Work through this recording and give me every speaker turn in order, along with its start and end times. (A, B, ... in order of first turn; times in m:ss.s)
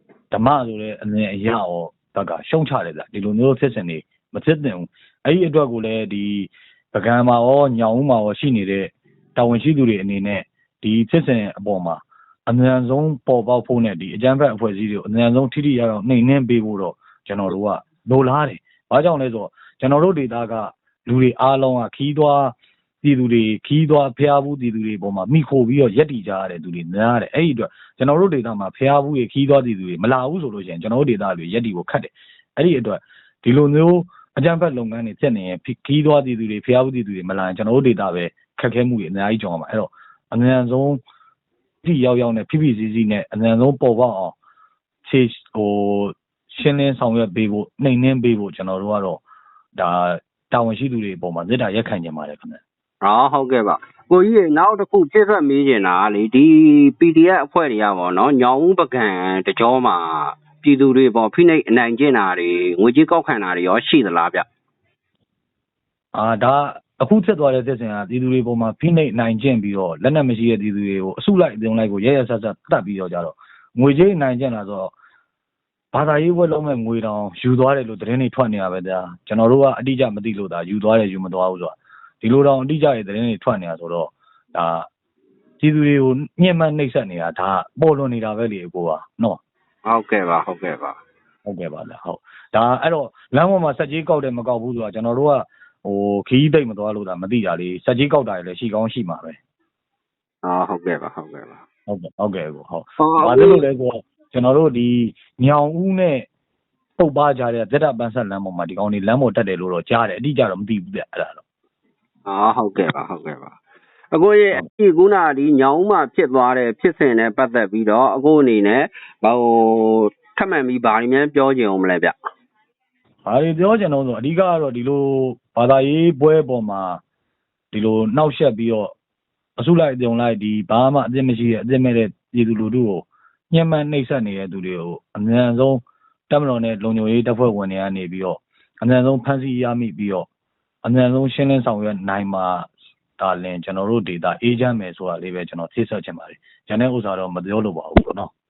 0:00.3-0:41.0 A
0:41.8-0:44.3 A
0:45.0-0:49.2 A
0:49.8-0:52.6 A
0:53.0-1:04.4 B
1:06.1-1:14.9 A
1:15.9-1:24.9 A
1:25.6-1:29.4 A
1:29.9-1:31.0 B
1:31.4-1:39.4 A
1:40.4-1:41.6 B
1:41.9-1:46.3 A
1:43.0-1:43.6 B
1:47.0-1:51.4 A
1:52.3-1:53.6 B
1:54.1-2:02.1 B
2:03.2-2:07.0 A
2:07.7-2:08.9 A
2:09.6-2:20.3 A
2:20.8-2:28.3 A